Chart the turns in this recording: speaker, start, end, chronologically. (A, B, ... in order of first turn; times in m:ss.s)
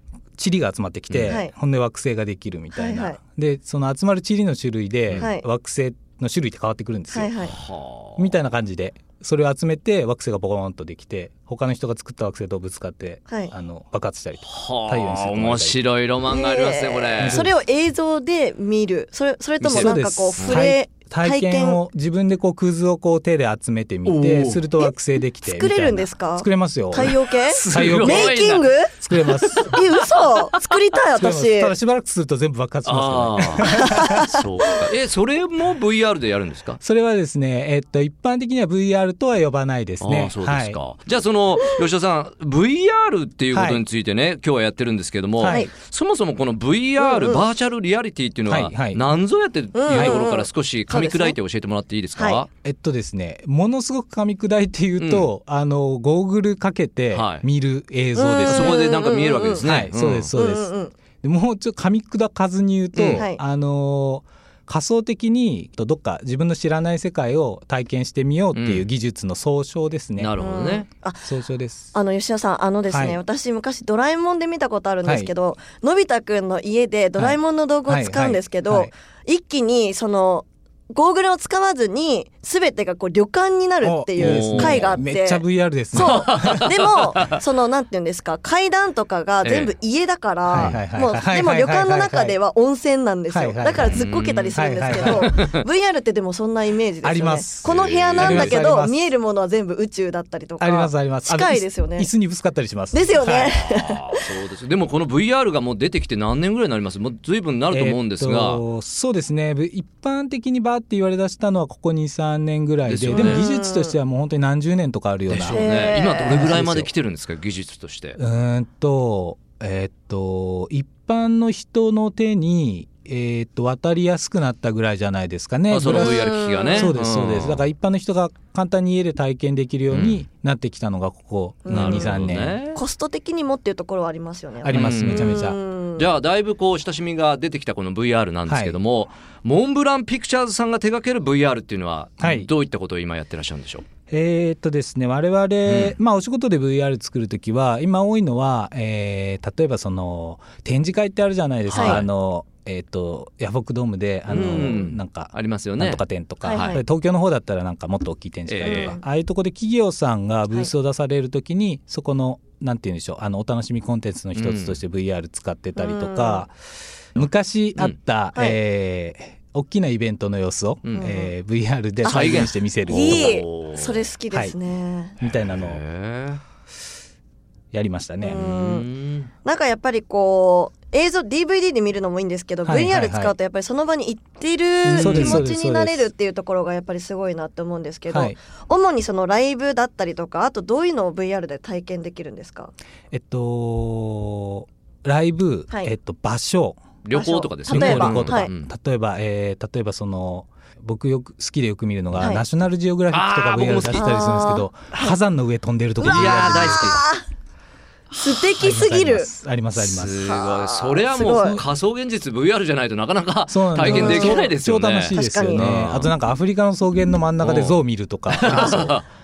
0:00.4-0:07.3 A
0:02.7-0:03.2 B
0:05.2-0:05.4 B
0:07.1-0:07.5 B
0:07.4-0:08.3 C
0:08.2-0:15.8 A
0:14.4-0:17.5 C
0:16.3-0:21.8 B
0:17.2-0:17.5 A
0:19.6-0:27.1 A
0:19.6-0:20.6 C
0:24.0-0:24.7 C
0:25.4-0:31.7 B
0:27.0-0:28.6 C
0:27.7-0:28.3 A
0:29.0-0:29.8 A
0:31.2-0:34.2 A
0:32.8-0:36.8 C
0:33.6-0:34.4 B
0:36.8-0:40.8 A
0:40.0-0:52.5 C
0:43.5-0:43.8 A
0:45.4-0:45.7 A
0:45.4-0:45.7 B
0:47.0-0:47.4 B
0:48.5-0:49.0 A
0:49.7-0:51.4 B
0:49.9-0:50.2 A
0:52.1-0:52.4 B
0:52.6-0:58.8 A
0:55.0-0:55.3 C
0:57.1-0:57.4 C
0:58.2-0:59.7 B
0:58.4-1:00.3 C
0:59.6-1:10.4 A
1:00.3-1:00.9 B
1:02.9-1:03.2 C
1:03.1-1:03.4 B
1:08.5-1:08.9 C
1:10.2-1:10.8 C
1:10.4-1:11.3 B
1:11.2-1:11.9 A
1:11.9-1:42.1 B
1:12.9-1:13.2 A
1:15.0-1:15.3 A
1:17.2-1:18.9 A
1:23.8-1:26.7 A
1:24.2-1:24.9 C
1:25.9-1:27.4 C
1:29.4-1:29.7 C
1:30.5-1:32.4 A
1:30.5-1:30.8 C
1:33.3-1:34.0 A
1:33.8-1:35.5 C
1:34.5-1:35.3 A
1:37.0-1:39.1 A
1:37.6-1:38.6 C
1:40.6-1:43.5 A
1:42.9-1:44.2 B
1:43.2-1:48.6 C
1:47.7-1:56.9 A
1:52.9-1:53.4 C
1:53.1-1:54.0 B
1:55.3-1:58.2 C
1:55.5-1:56.6 B
1:58.2-2:12.6 A
2:05.7-2:07.6 C
2:05.9-2:06.9 B
2:09.9-2:10.2 C
2:11.6-2:12.1 B
2:11.7-2:12.8 C
2:12.7-2:16.1 B
2:14.6-2:15.6 A
2:14.7-2:15.4 C
2:16.0-2:23.8 C
2:18.5-2:18.7 A
2:22.2-2:22.5 A
2:24.1-2:46.5 A
2:25.6-2:26.0 C
2:31.7-2:32.1 C
2:31.7-2:32.0 B
2:34.3-2:36.8 C
2:36.4-2:36.8 B
2:38.5-2:38.9 C
2:38.6-2:39.0 B
2:44.3-2:44.8 C
2:45.8-2:46.4 B
2:47.1-2:53.3 A
2:50.8-2:51.1 C
2:51.0-2:51.3 B
2:52.0-2:55.2 B
2:52.1-2:54.1 C
2:55.2-2:55.8 A
2:55.2-2:56.4 C
2:57.7-2:58.4 A
2:58.2-2:58.9 B
2:58.4-2:59.3 C
2:59.4-3:12.7 B
3:02.6-3:03.3 A
3:04.8-3:06.1 A
3:04.9-3:05.4 C
3:08.1-3:08.4 A
3:13.1-3:16.8 A
3:17.0-3:18.7 C
3:17.1-3:18.5 B
3:17.7-3:27.0 A
3:22.2-3:22.4 B
3:23.1-3:24.2 C
3:23.9-3:25.2 B
3:26.0-3:27.0 C
3:26.0-3:27.2 B
3:28.1-3:29.3 B
3:28.5-3:30.2 A
3:29.7-3:36.1 C
3:30.2-3:31.6 B
3:31.2-3:31.6 A
3:33.5-3:38.9 A
3:33.8-3:34.5 B
3:35.1-3:35.7 B
3:37.4-3:37.8 C
3:38.3-3:39.0 C
3:38.5-3:39.0 B